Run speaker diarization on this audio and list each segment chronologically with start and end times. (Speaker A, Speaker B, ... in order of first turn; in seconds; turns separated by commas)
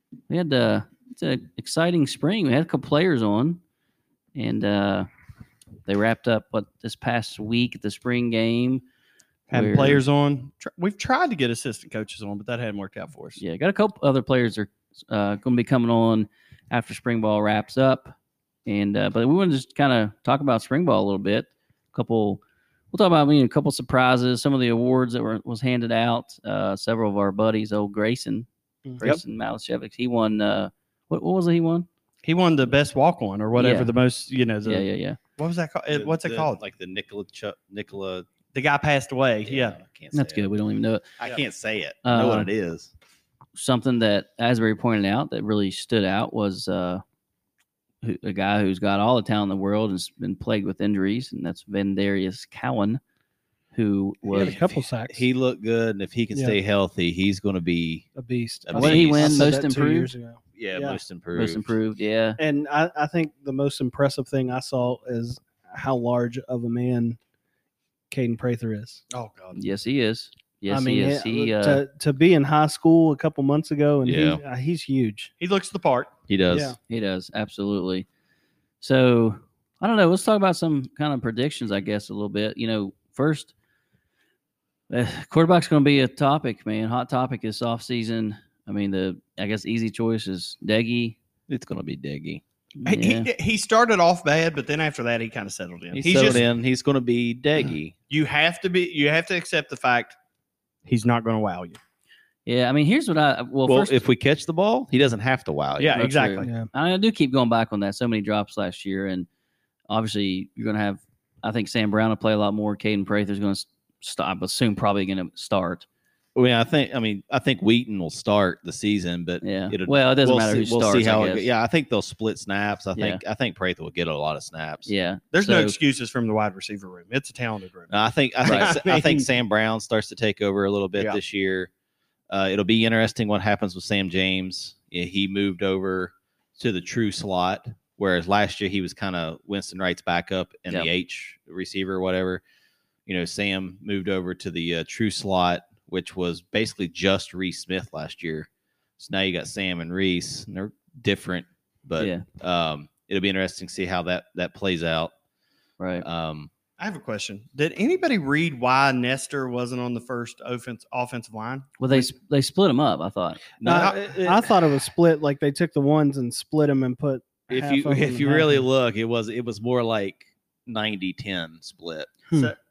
Speaker A: 0.3-3.6, Speaker A: 4.3-5.1, Speaker A: 5.9-8.8, Speaker B: 9.5-13.4, Speaker A: 9.5-10.0, Speaker A: 13.4-18.1, Speaker A: 18.7-28.5, Speaker A: 29.0-31.9, Speaker B: 32.2-34.9, Speaker A: 33.5-33.9, Speaker A: 34.6-35.2, Speaker B: 35.4-36.6, Speaker C: 35.9-38.3, Speaker B: 38.5-39.8, Speaker C: 39.5-40.5, Speaker A: 40.1-41.1, Speaker C: 41.2-42.9, Speaker A: 42.0-42.5, Speaker A: 43.5-47.0, Speaker A: 48.0-53.0, Speaker A: 53.7-54.6, Speaker D: 54.3-55.3, Speaker C: 54.3-58.1, Speaker D: 56.3-56.6, Speaker D: 58.2-61.0, Speaker C: 58.6-59.5, Speaker A: 58.8-60.1, Speaker C: 60.5-61.8, Speaker A: 61.4-62.4, Speaker D: 62.4-67.2, Speaker D: 68.1-69.0, Speaker B: 69.1-69.6, Speaker A: 69.5-71.8, Speaker D: 70.7-75.3, Speaker C: 74.1-74.4, Speaker B: 75.4-76.1, Speaker C: 76.3-76.8, Speaker D: 76.5-76.8, Speaker A: 76.9-78.1, Speaker A: 78.8-83.5, Speaker A: 84.9-91.2, Speaker C: 91.5-92.4, Speaker A: 92.8-93.3, Speaker B: 92.9-96.5, Speaker C: 95.9-98.0, Speaker A: 96.1-96.5, Speaker B: 98.1-100.2, Speaker B: 100.8-101.8, Speaker A: 102.5-104.0, Speaker C: 103.7-106.1, Speaker B: 105.8-106.5, Speaker A: 105.9-109.3, Speaker A: 109.9-115.9, Speaker C: 116.3-124.9, Speaker A: 119.4-121.5, Speaker A: 123.0-123.2, Speaker A: 124.9-125.8, Speaker B: 125.3-129.3, Speaker C: 127.9-131.7, Speaker A: 128.4-128.7, Speaker C: 132.3-142.4, Speaker C: 143.1-155.1, Speaker A: 152.0-152.2, Speaker A: 155.8-156.1, Speaker C: 156.0-156.5, Speaker B: 156.8-162.1, Speaker A: 161.8-163.5, Speaker C: 163.6-164.4, Speaker D: 163.6-168.7, Speaker B: 163.7-164.0, Speaker C: 167.5-172.1